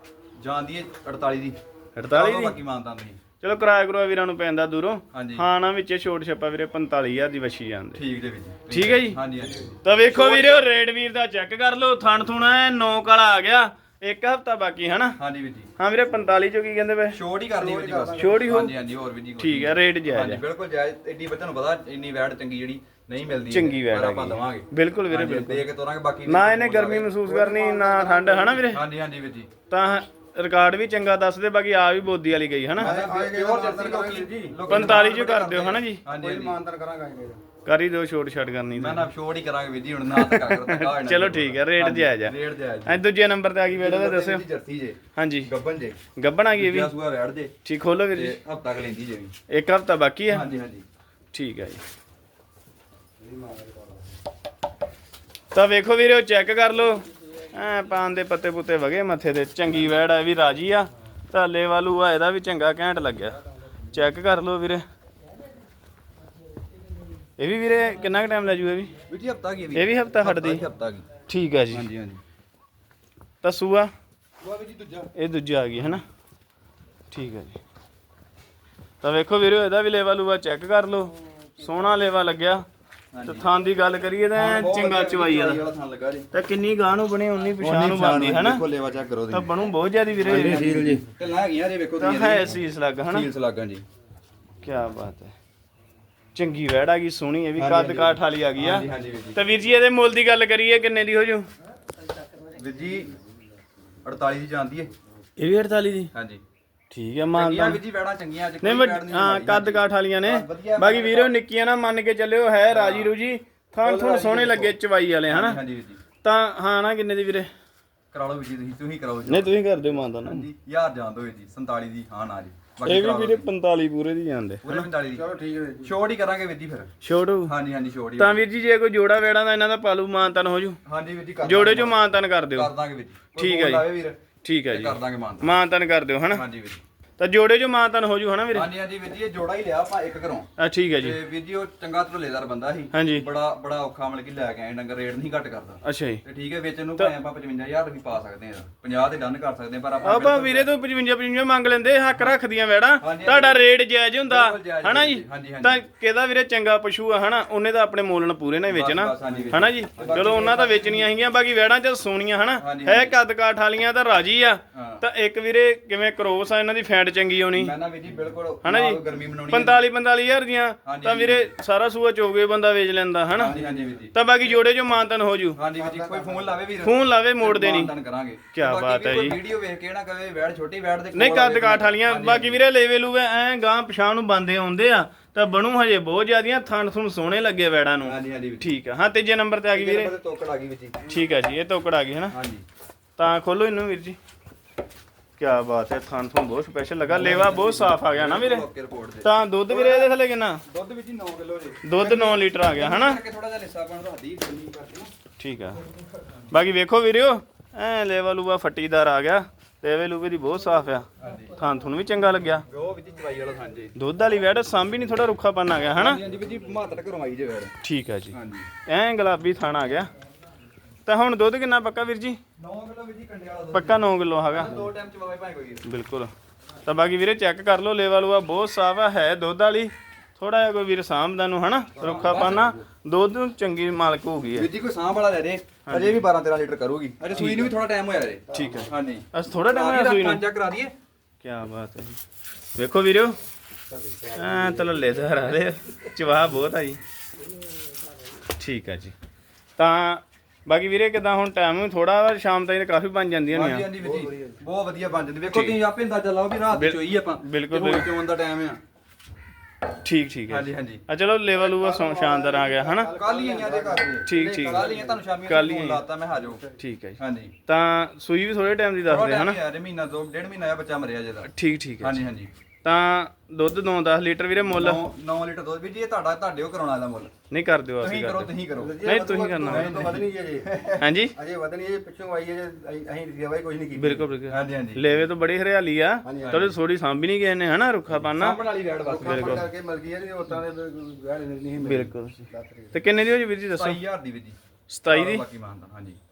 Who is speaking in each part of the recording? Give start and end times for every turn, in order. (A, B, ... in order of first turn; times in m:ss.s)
0:00.4-0:03.2 A
0:02.0-0:02.6 B
0:03.4-0:08.0 B
0:05.1-0:05.4 A
0:08.0-0:10.7 A
0:08.7-0:09.2 B
0:09.8-0:15.2 B
0:15.2-0:15.7 A
0:15.8-0:17.2 B
0:17.1-0:27.1 A
0:17.6-0:18.6 C
0:18.2-0:18.7 B
0:19.4-0:20.4 B
0:23.5-0:25.7 B
0:26.3-0:28.8 B
0:27.2-0:28.7 C
0:28.7-0:29.5 A
0:29.7-0:32.9 B
0:32.8-0:36.6 A
0:32.8-0:35.0 C
0:34.7-0:36.0 B
0:36.1-0:37.4 C
0:37.7-0:39.1 B
0:38.8-0:43.0 A
0:40.1-0:42.3 B
0:42.9-0:44.4 B
0:43.7-0:46.0 A
0:45.2-0:45.5 B
0:46.2-0:46.9 B
0:46.5-0:47.6 A
0:47.6-0:48.4 B
0:48.1-0:49.3 A
0:49.5-0:50.5 B
0:50.3-0:50.8 A
0:51.3-0:51.8 B
0:53.2-0:54.0 C
0:55.5-1:03.4 B
1:03.9-1:04.8 B
1:07.4-1:08.9 B
1:09.1-1:11.1 A
1:09.8-1:10.6 B
1:11.3-1:11.8 B
1:11.7-1:12.2 A
1:13.4-1:13.9 B
1:14.4-1:15.1 A
1:15.2-1:16.0 B
1:17.1-1:17.6 B
1:19.0-1:22.7 B
1:23.1-1:23.5 A
1:23.3-1:25.6 B
1:24.3-1:26.3 A
1:26.3-1:28.6 B
1:27.6-1:29.5 A
1:29.3-1:30.9 B
1:30.2-1:33.8 A
1:30.3-1:31.1 C
1:32.0-1:33.3 B
1:34.6-1:35.4 B
1:36.4-1:41.5 B
1:37.6-1:39.4 A
1:42.5-1:43.1 A
1:44.0-1:44.9 A
1:45.4-1:46.1 B
1:46.1-1:46.4 A
1:46.9-1:47.8 B
1:47.3-1:51.3 A
1:48.6-1:55.6 B
1:52.7-1:53.2 A
1:53.8-1:56.0 A
1:56.2-1:57.5 B
1:58.1-2:03.5 A
1:59.3-2:00.5 B
2:02.8-2:04.9 B
2:04.6-2:05.2 A
2:05.1-2:05.9 C
2:05.8-2:06.9 A
2:07.0-2:07.5 B
2:07.5-2:08.4 A
2:08.2-2:10.8 B
2:10.9-2:12.0 A
2:11.4-2:12.7 B
2:12.5-2:15.5 A
2:13.4-2:13.9 B
2:14.4-2:16.4 B
2:16.3-2:16.8 A
2:17.2-2:18.7 B
2:18.5-2:30.7 A
2:20.6-2:21.2 B
2:22.9-2:23.2 B
2:25.8-2:26.2 B
2:30.0-2:47.8 B
2:33.0-2:33.7 A
2:34.2-2:35.9 A
2:38.7-2:41.0 A
2:42.6-2:43.1 A
2:44.7-2:45.0 A
2:47.5-2:49.8 A
2:48.6-2:53.6 B
2:50.8-2:51.5 A
2:53.3-2:54.2 A
2:54.1-2:55.6 B
2:55.6-3:02.6 A
2:55.8-2:56.5 C
2:56.8-2:57.9 B
2:58.5-2:59.4 B
3:01.1-3:10.1 B
3:08.0-3:08.7 A
3:09.7-3:11.1 A
3:11.1-3:12.3 B
3:12.3-3:12.6 A
3:13.2-3:14.2 B
3:15.4-3:18.6 B
3:17.1-3:20.1 A
3:19.2-3:20.6 B
3:20.7-3:25.1 A
3:21.8-3:23.2 B
3:25.4-3:25.8 B
3:26.5-3:32.6 B
3:31.2-3:31.5 A
3:32.7-3:34.0 A
3:34.0-3:36.2 B
3:35.9-3:37.8 A
3:37.8-3:40.1 B
3:38.3-3:38.7 A
3:41.1-3:42.4 B
3:42.6-3:45.8 A
3:43.7-3:44.9 B
3:45.8-3:46.3 B
3:46.8-3:54.7 B
3:52.0-3:52.8 A
3:54.5-4:00.9 A
3:55.9-3:56.2 B
3:57.4-3:57.7 B
3:58.5-4:00.4 B
4:01.4-4:02.2 B
4:02.8-4:03.4 B
4:03.9-4:05.0 C
4:04.4-4:07.0 B
4:08.6-4:09.1 B
4:09.8-4:13.9 B
4:13.5-4:18.8 A
4:14.0-4:14.5 C
4:15.5-4:15.8 B
4:16.7-4:18.1 B
4:20.0-4:23.1 B
4:20.5-4:21.0 A
4:21.6-4:25.2 C
4:23.1-4:26.6 A
4:24.3-4:24.9 B
4:25.4-4:26.0 B
4:26.8-4:29.6 B
4:27.2-4:27.6 A
4:29.0-4:32.5 A
4:31.5-4:32.2 B
4:32.8-4:35.0 B
4:34.7-4:37.3 A
4:37.5-4:40.2 B
4:38.0-4:39.0 A
4:38.8-4:40.7 C
4:39.6-4:41.0 A
4:41.0-4:41.3 B
4:41.4-4:44.3 C
4:44.0-4:48.6 B
4:44.5-4:45.1 A
4:46.2-4:46.7 C
4:46.4-4:46.8 A
4:48.4-4:49.7 A
4:49.1-4:53.0 C
4:49.2-4:49.6 B
4:51.8-4:54.0 B
4:53.8-4:54.6 A
4:54.9-4:55.4 B
4:55.1-4:56.2 A